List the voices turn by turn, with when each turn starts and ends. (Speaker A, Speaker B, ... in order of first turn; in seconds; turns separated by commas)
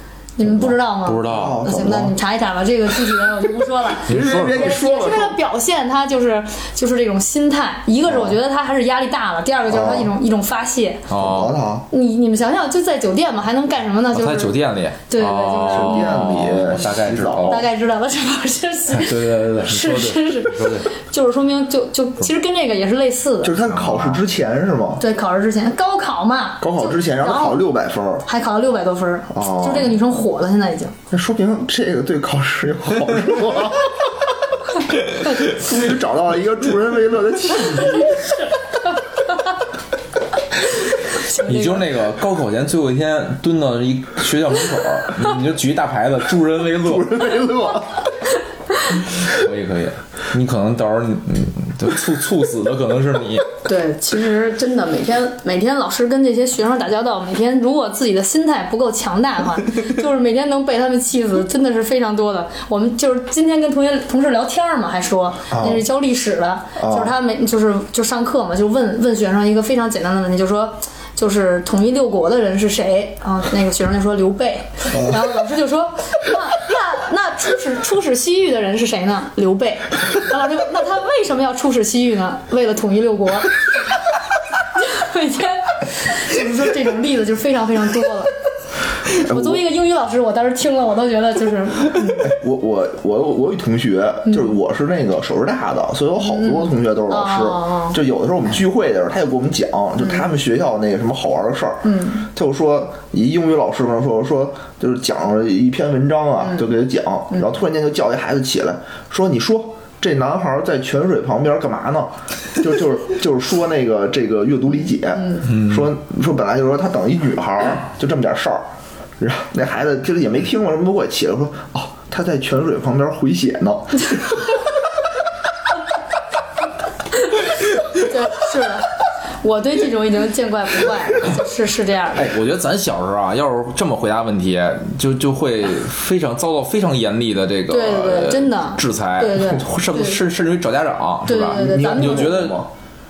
Speaker A: 0.4-11.1, Speaker B: 1.1-1.6, Speaker C: 1.3-2.1, Speaker C: 4.1-5.4, Speaker B: 4.1-4.7, Speaker C: 8.1-8.4, Speaker C: 9.7-10.1, Speaker B: 11.1-11.6, Speaker C: 11.2-11.9, Speaker A: 11.9-14.6, Speaker B: 14.1-17.7, Speaker A: 15.1-16.3, Speaker C: 15.7-17.6, Speaker A: 17.5-23.6, Speaker B: 18.9-20.9, Speaker C: 23.4-25.0, Speaker B: 23.6-24.2, Speaker A: 25.0-27.6, Speaker C: 26.6-28.3, Speaker A: 28.3-30.9, Speaker C: 29.3-30.0, Speaker C: 31.1-34.2, Speaker C: 35.2-38.3, Speaker A: 37.8-38.5, Speaker A: 41.0-41.9, Speaker B: 41.3-47.2, Speaker C: 46.8-48.1, Speaker B: 48.9-53.5, Speaker A: 53.6-83.5, Speaker C: 65.5-65.8, Speaker C: 66.8-67.1, Speaker A: 84.7-88.3, Speaker A: 89.1-92.3, Speaker C: 89.1-89.6, Speaker C: 92.2-118.7, Speaker A: 96.3-98.0, Speaker A: 101.8-102.3, Speaker C: 119.2-124.6, Speaker A: 127.9-132.3, Speaker B: 132.2-142.7, Speaker A: 137.7-140.2, Speaker A: 141.3-142.5, Speaker C: 141.5-142.7